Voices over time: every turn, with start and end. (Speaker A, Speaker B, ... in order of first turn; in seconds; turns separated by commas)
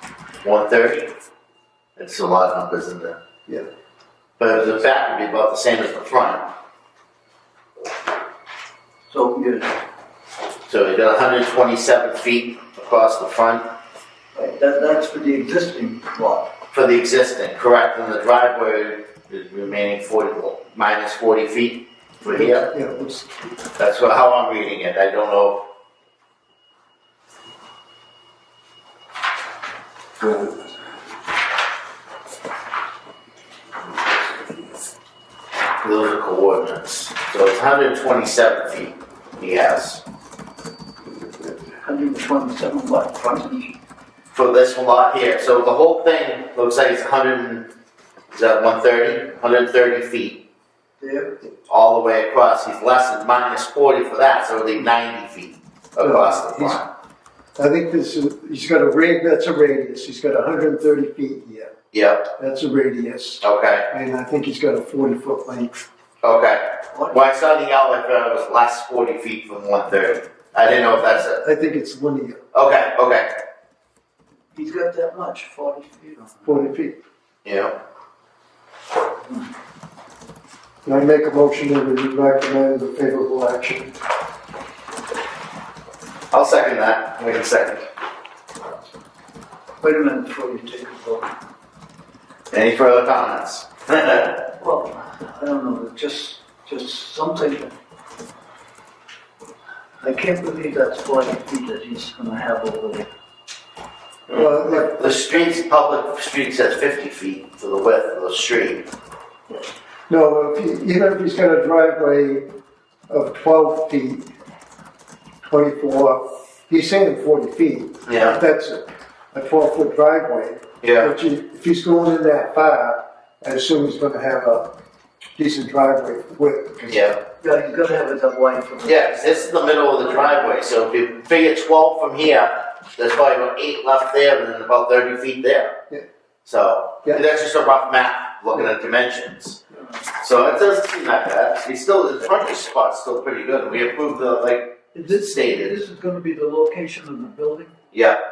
Speaker A: 0.4-1.1, Speaker A: 2.0-3.2, Speaker A: 4.4-6.5, Speaker B: 9.1-9.8, Speaker A: 10.7-13.7, Speaker B: 14.3-16.5, Speaker A: 16.7-22.7, Speaker C: 22.3-23.4, Speaker A: 23.8-25.6, Speaker A: 35.8-40.0, Speaker B: 41.8-43.8, Speaker A: 44.3-47.7, Speaker A: 48.3-50.4, Speaker B: 51.0-51.4, Speaker A: 51.7-56.9, Speaker C: 56.0-56.8, Speaker C: 57.6-61.7, Speaker A: 61.9-62.3, Speaker C: 62.4-65.8, Speaker A: 63.4-63.9, Speaker A: 66.2-71.4, Speaker C: 71.4-72.4, Speaker A: 72.5-73.3, Speaker B: 74.5-76.7, Speaker C: 76.5-77.0, Speaker A: 77.5-77.7, Speaker C: 80.8-83.9, Speaker A: 86.3-87.9, Speaker B: 89.8-91.3, Speaker A: 92.5-94.4, Speaker B: 94.5-97.7, Speaker B: 100.0-103.1, Speaker A: 104.3-108.9, Speaker C: 104.3-105.4, Speaker C: 110.1-112.5, Speaker C: 113.1-114.3, Speaker C: 115.5-124.7, Speaker A: 118.1-118.4, Speaker A: 120.8-121.1, Speaker C: 125.4-127.1, Speaker A: 126.9-127.2, Speaker B: 127.4-130.7, Speaker A: 128.8-135.7, Speaker A: 136.4-139.6, Speaker A: 140.2-145.8, Speaker B: 144.9-147.7, Speaker A: 147.9-148.2